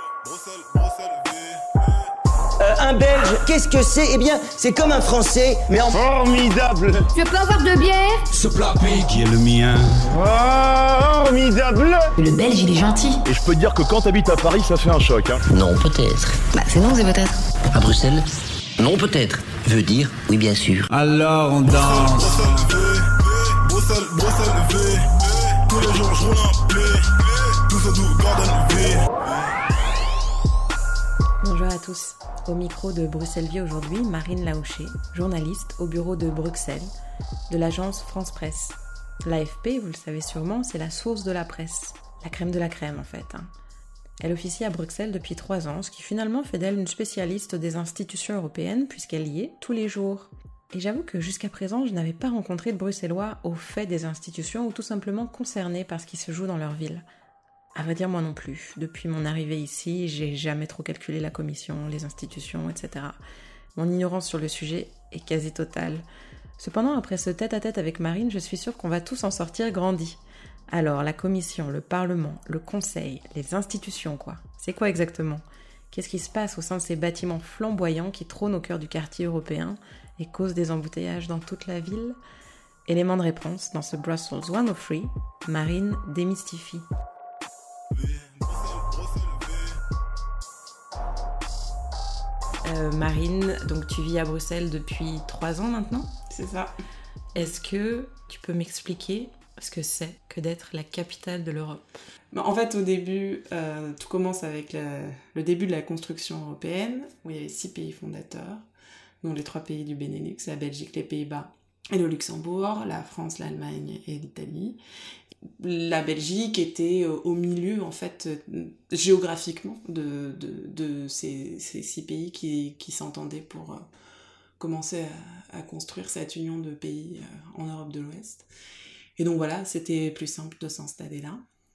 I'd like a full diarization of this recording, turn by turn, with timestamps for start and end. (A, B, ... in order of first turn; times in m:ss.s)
0:00.2-0:01.6 A
0:02.6-0:06.0 B
0:05.9-0:07.1 C
0:07.1-0:08.3 D
0:08.3-0:10.0 E
0:10.1-0:12.1 C
0:12.2-0:13.2 D
0:13.3-0:15.4 C
0:15.5-0:16.4 F
0:16.5-0:17.4 D
0:17.7-0:18.3 F
0:18.8-0:20.9 F
0:20.9-0:22.6 E
0:21.7-0:23.0 A
0:23.7-0:25.0 A
0:25.5-0:29.4 A
0:31.4-0:36.9 G
0:37.5-0:43.5 G
0:44.2-0:57.0 G
0:57.8-1:03.2 G
1:03.8-1:06.0 G
1:06.6-1:10.2 G
1:10.7-1:22.2 G
1:22.9-1:26.9 G
1:28.0-1:29.7 A
1:32.6-1:36.1 G
1:36.3-1:36.7 H
1:37.3-1:41.8 G
1:42.3-1:48.7 H
1:49.2-1:54.8 H
1:55.6-2:03.9 H
2:04.6-2:08.5 H
2:09.2-2:11.4 H